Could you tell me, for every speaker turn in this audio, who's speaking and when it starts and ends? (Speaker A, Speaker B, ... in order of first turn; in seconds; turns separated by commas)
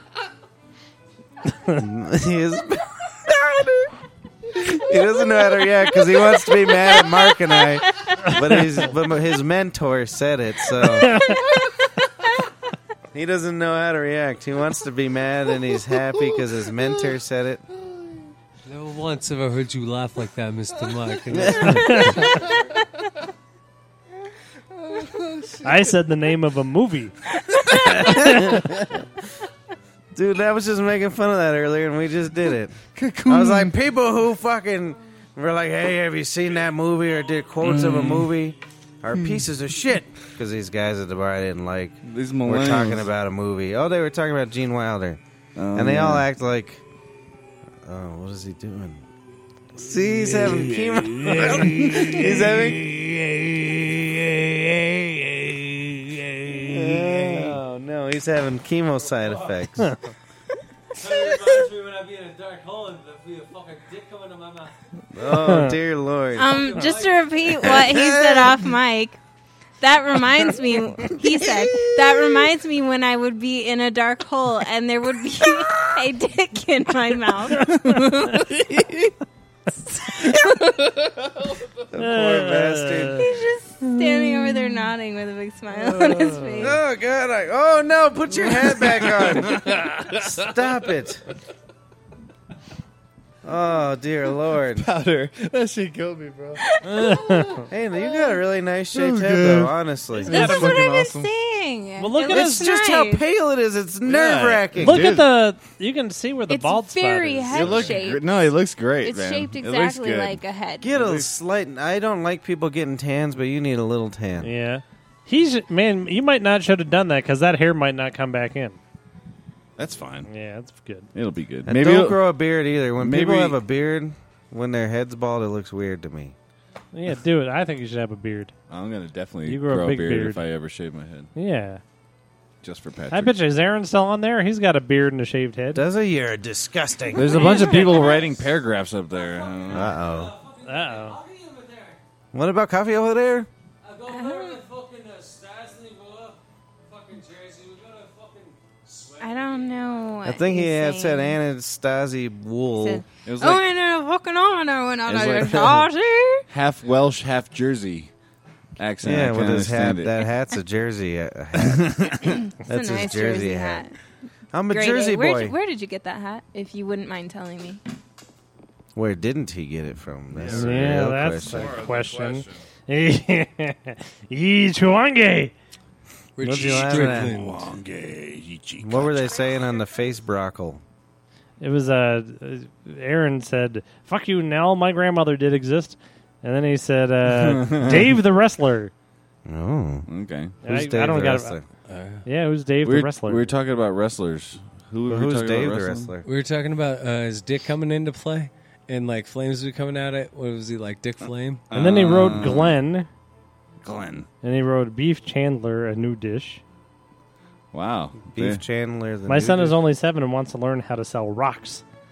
Speaker A: 1.8-3.9, Speaker A: 4.5-11.3, Speaker B: 11.0-11.4, Speaker A: 13.1-17.6, Speaker C: 18.6-22.2, Speaker A: 21.3-22.1, Speaker B: 21.6-22.5, Speaker D: 24.8-25.9, Speaker B: 25.6-27.2, Speaker A: 27.7-28.9, Speaker B: 27.9-28.7, Speaker A: 30.1-45.2, Speaker D: 33.0-33.8, Speaker D: 37.6-38.3, Speaker D: 39.1-39.5, Speaker D: 42.0-43.1, Speaker D: 45.6-46.3, Speaker A: 45.7-46.8, Speaker A: 47.8-49.0, Speaker A: 49.8-53.0, Speaker D: 50.4-52.6, Speaker B: 51.3-51.8, Speaker A: 56.5-60.0, Speaker C: 59.2-59.5, Speaker C: 60.9-64.8, Speaker A: 65.1-66.6, Speaker B: 65.3-65.8, Speaker E: 66.3-69.2, Speaker C: 66.5-67.2, Speaker A: 67.6-68.5, Speaker E: 69.8-78.6, Speaker D: 77.6-79.2, Speaker E: 79.9-80.9, Speaker D: 80.8-81.6, Speaker A: 81.9-83.3, Speaker B: 82.0-83.3, Speaker E: 83.2-86.8, Speaker D: 85.7-86.6, Speaker A: 86.6-91.2, Speaker D: 88.3-90.5, Speaker A: 93.4-94.9, Speaker D: 94.7-98.4, Speaker B: 96.8-97.7, Speaker A: 97.7-100.8, Speaker D: 98.9-101.3, Speaker E: 100.2-103.2, Speaker B: 102.0-102.7, Speaker A: 102.3-105.1, Speaker D: 104.0-105.3, Speaker B: 104.8-108.0, Speaker E: 106.5-108.3, Speaker D: 107.5-110.4, Speaker E: 109.0-110.9, Speaker A: 110.8-114.5, Speaker D: 110.9-111.3, Speaker B: 114.4-118.8, Speaker D: 119.8-120.3, Speaker B: 120.3-121.1, Speaker D: 121.1-122.3, Speaker A: 121.7-126.3, Speaker D: 123.0-123.6, Speaker B: 126.9-128.5, Speaker D: 128.7-131.3, Speaker B: 129.4-130.4, Speaker B: 131.3-131.8, Speaker D: 132.6-133.4, Speaker B: 133.1-135.8, Speaker A: 135.7-137.8, Speaker D: 137.1-140.0, Speaker E: 137.3-138.2, Speaker C: 139.4-142.0, Speaker A: 139.7-140.4, Speaker B: 140.6-141.2, Speaker A: 142.3-143.5, Speaker C: 143.8-149.8, Speaker E: 144.1-144.6, Speaker E: 149.2-151.4, Speaker A: 150.2-153.1, Speaker E: 152.8-156.4, Speaker D: 153.3-153.7, Speaker D: 155.1-155.9, Speaker D: 156.5-158.1, Speaker D: 158.8-160.2, Speaker A: 159.0-163.8, Speaker D: 161.6-162.4, Speaker E: 162.6-163.9, Speaker A: 164.5-165.6, Speaker E: 164.7-167.8, Speaker A: 168.9-171.8, Speaker D: 170.3-172.6, Speaker B: 170.5-175.5, Speaker C: 176.4-177.8, Speaker A: 176.4-177.6, Speaker D: 177.2-179.2, Speaker A: 178.8-180.8, Speaker B: 181.6-188.9, Speaker D: 187.2-188.1, Speaker A: 189.5-190.1, Speaker D: 190.1-190.6, Speaker B: 190.6-191.6, Speaker A: 190.6-191.6, Speaker C: 191.9-192.3, Speaker B: 192.2-193.5, Speaker D: 192.8-196.1, Speaker A: 195.1-196.3, Speaker C: 196.2-201.7, Speaker D: 201.7-202.8, Speaker B: 201.7-203.1, Speaker D: 203.8-204.3, Speaker B: 204.4-206.6, Speaker D: 207.7-208.6, Speaker A: 208.3-209.8, Speaker B: 209.3-211.8